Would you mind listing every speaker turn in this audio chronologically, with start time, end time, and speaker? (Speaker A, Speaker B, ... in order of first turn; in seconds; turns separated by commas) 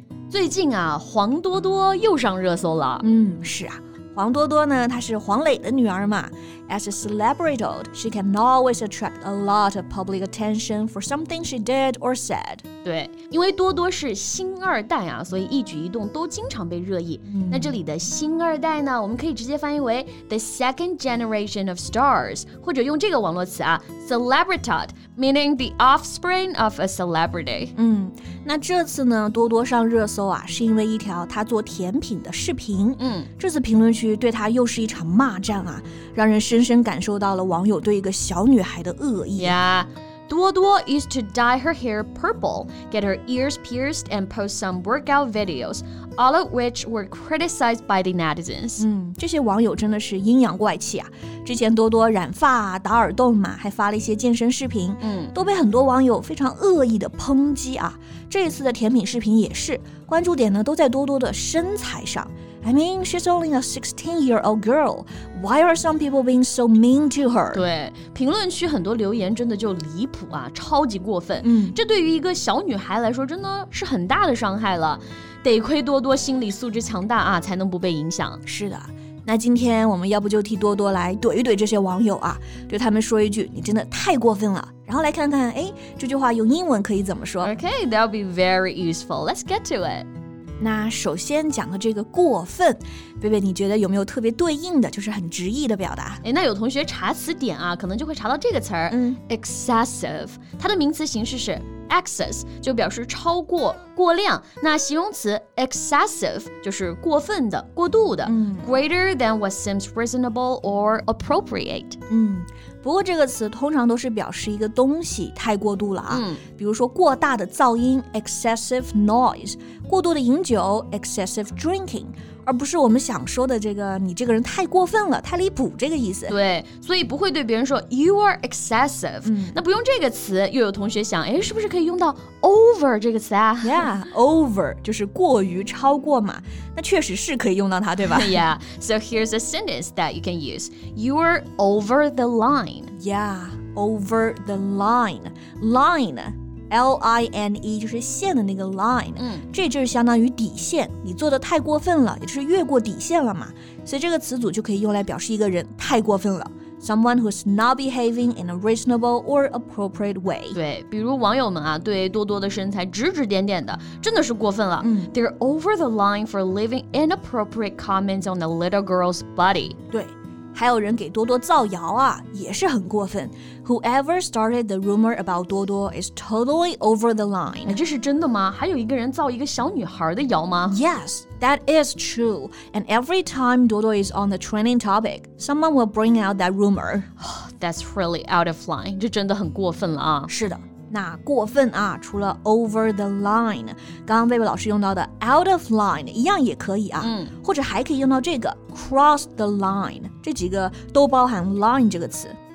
Speaker A: 0.3-3.0, Speaker B: 3.0-12.6, Speaker A: 12.8-27.7, Speaker B: 17.3-17.8, Speaker B: 27.8-39.6, Speaker A: 33.0-33.3, Speaker A: 39.4-48.8, Speaker B: 48.8-67.6, Speaker A: 55.0-55.3, Speaker A: 67.5-78.4, Speaker B: 71.4-71.8, Speaker B: 78.5-87.5, Speaker A: 87.4-90.1, Speaker B: 90.6-96.2, Speaker A: 96.2-112.0, Speaker B: 98.9-99.2, Speaker B: 108.2-108.7, Speaker B: 112.1-126.4, Speaker A: 116.1-116.4, Speaker A: 126.3-133.9, Speaker B: 129.2-129.6, Speaker B: 133.6-138.4, Speaker A: 138.1-142.9, Speaker B: 143.0-160.6, Speaker A: 149.2-149.5, Speaker A: 160.5-169.8, Speaker B: 164.8-165.1, Speaker B: 169.9-177.8, Speaker A: 177.7-180.8, Speaker B: 180.7-187.1, Speaker A: 187.2-190.3, Speaker B: 190.3-202.4, Speaker A: 197.0-197.3